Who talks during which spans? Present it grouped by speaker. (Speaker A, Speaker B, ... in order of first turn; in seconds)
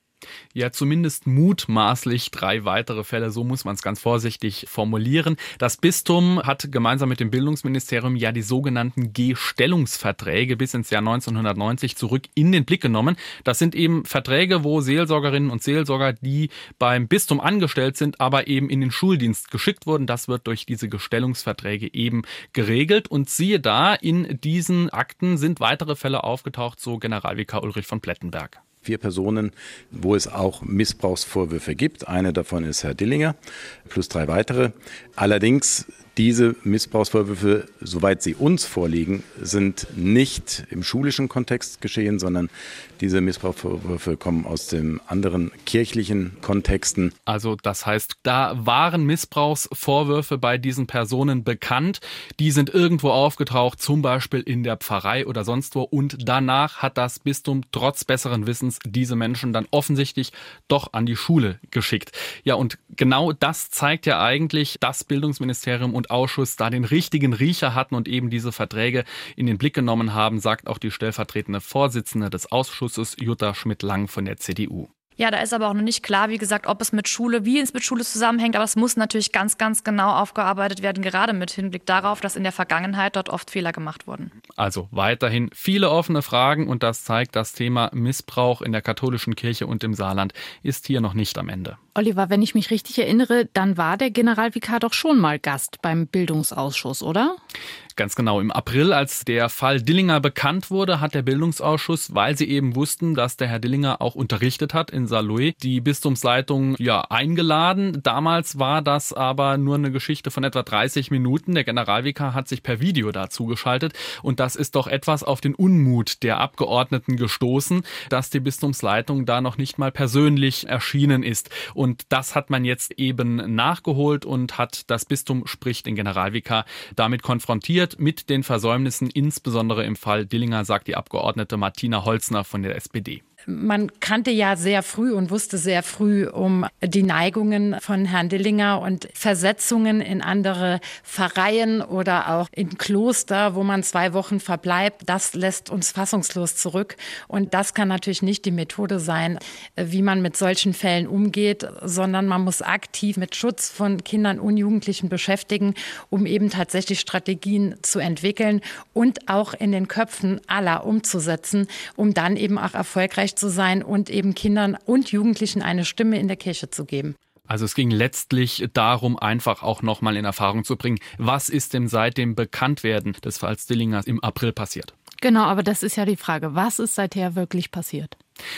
Speaker A: 0.5-28.6, 47.3-74.9, 84.5-91.8, 98.0-133.2, 167.5-174.9
Speaker B: 28.8-47.1
Speaker C: 75.2-84.3
Speaker D: 91.9-97.4, 175.2-178.1
Speaker E: 133.5-167.1